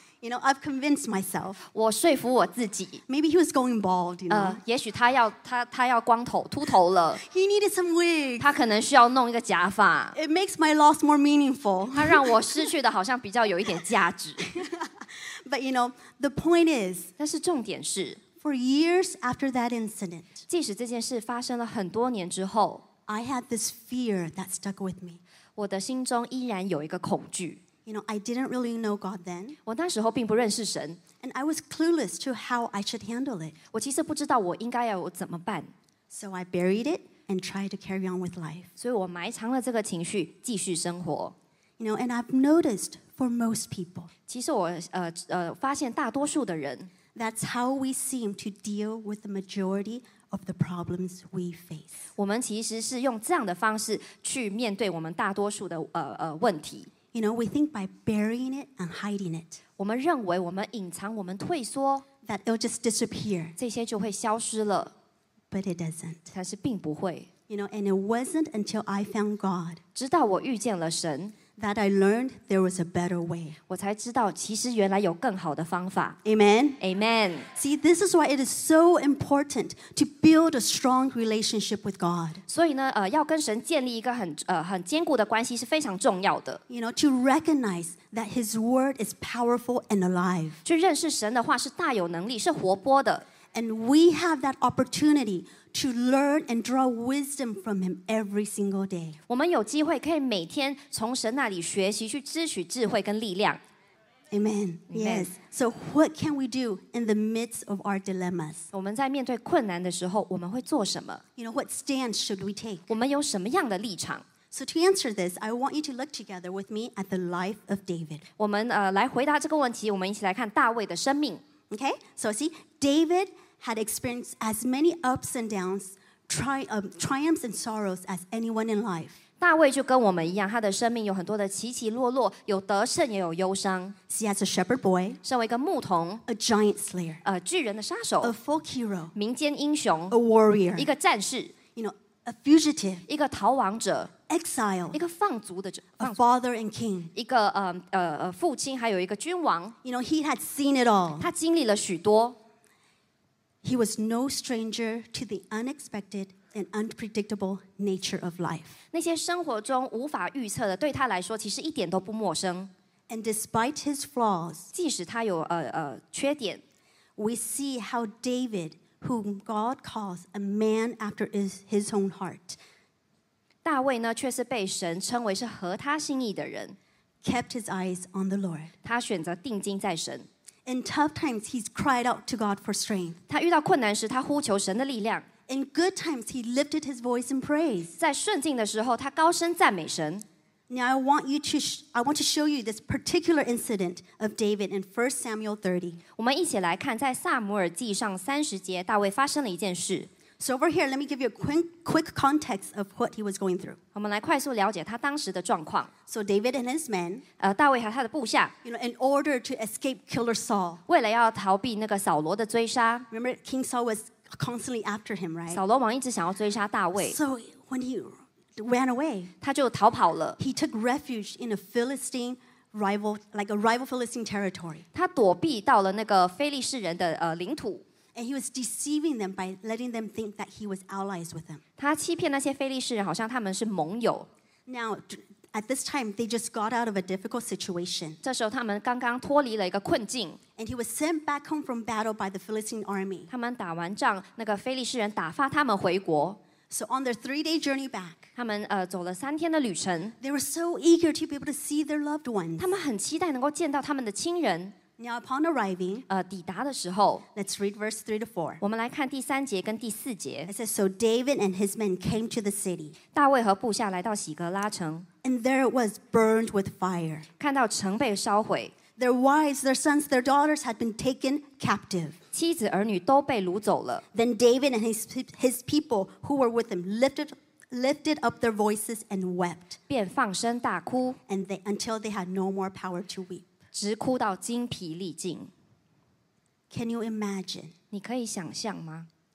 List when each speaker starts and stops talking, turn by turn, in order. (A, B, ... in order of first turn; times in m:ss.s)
0:00.2-0:01.6 A
0:01.7-0:03.0 B
0:03.1-0:04.6 A
0:04.3-0:07.2 B
0:07.2-0:08.5 A
0:08.4-0:10.2 B
0:10.1-0:12.4 A
0:11.9-0:14.5 B
0:14.4-0:17.1 A
0:17.2-0:18.2 B
0:18.4-0:20.4 A
0:20.5-0:22.8 B
0:23.1-0:25.2 A
0:25.6-0:27.6 B
0:27.8-0:29.6 A
0:29.6-0:31.0 B
0:31.2-0:33.5 A
0:33.7-0:35.7 B
0:36.1-0:38.7 A
0:38.8-0:41.3 B
0:41.8-0:44.1 A
0:44.3-0:46.9 B
0:47.1-0:52.1 A
0:52.1-0:56.9 B
0:57.1-0:59.6 A
0:59.8-1:02.0 B
1:02.2-1:03.6 A
1:03.6-1:04.9 B
1:05.5-1:06.2 A
1:06.3-1:07.3 B
1:07.5-1:09.8 A
1:09.9-1:11.3 B
1:11.6-1:13.6 A
1:13.7-1:16.2 B
1:16.2-1:16.8 A
1:16.8-1:17.5 B
1:17.5-1:22.4 A
1:22.5-1:26.6 B
1:26.7-1:30.6 A
1:30.6-1:33.2 B
1:33.5-1:39.2 A
1:39.3-1:43.6 B
1:44.3-1:48.7 A
1:44.9-1:45.3 B
1:48.7-1:51.2 B
1:51.4-1:52.9 A
1:52.9-1:54.2 B
1:54.5-1:58.3 A
1:58.4-2:01.4 B
2:01.7-2:09.2 A
2:09.4-2:14.0 B
2:14.1-2:15.2 A
2:15.2-2:16.2 B
2:16.3-2:17.2 A
2:17.2-2:18.3 B
2:18.2-2:19.1 A
2:19.1-2:20.1 B
2:20.1-2:20.9 A
2:20.7-2:21.5 B
2:21.7-2:23.0 A
2:23.1-2:24.1 B
2:24.3-2:25.0 A
2:24.9-2:26.2 B
2:26.0-2:27.1 A
2:27.1-2:29.8 B
2:29.8-2:31.3 A
2:31.2-2:32.4 B
2:33.6-2:38.8 A
2:38.9-2:42.7 B
2:43.1-2:44.7 A
2:44.7-2:46.6 B
2:47.2-2:52.6 A
2:53.6-2:56.8 B
2:57.2-2:58.7 A
2:58.8-3:00.3 B
3:00.6-3:03.2 A
3:03.3-3:05.3 B
3:05.5-3:08.0 A
3:08.0-3:10.2 B
3:10.7-3:16.0 A
3:16.2-3:20.1 B
3:20.4-3:23.8 A
3:23.9-3:25.9 B
3:26.1-3:27.2 A
3:27.4-3:28.5 B
3:28.6-3:30.8 A
3:30.9-3:33.1 B
3:33.1-3:35.6 A
3:35.5-3:37.2 B
3:37.0-3:39.3 A
3:39.4-3:40.4 B
3:40.4-3:44.8 A
3:44.9-3:47.8 B
3:48.1-3:51.6 A
3:51.8-3:54.3 B
3:54.7-3:58.2 A
3:58.2-4:00.4 B
4:00.6-4:03.3 A
4:03.3-4:06.4 B
4:06.7-4:08.3 A
4:08.3-4:10.1 B
4:10.2-4:12.8 A
4:12.6-4:14.7 B
4:15.0-4:16.0 A
4:16.1-4:17.2 B
4:17.3-4:18.6 A
4:18.6-4:20.5 B
4:20.5-4:22.9 A
4:23.1-4:25.0 B
4:25.2-4:27.2 A
4:27.4-4:28.7 B
4:29.0-4:32.2 A
4:32.3-4:34.0 B
4:34.1-4:39.8 A
4:39.9-4:41.2 B
4:41.3-4:43.5 A
4:43.7-4:45.5 B
4:46.7-4:47.7 A
4:47.9-4:49.1 B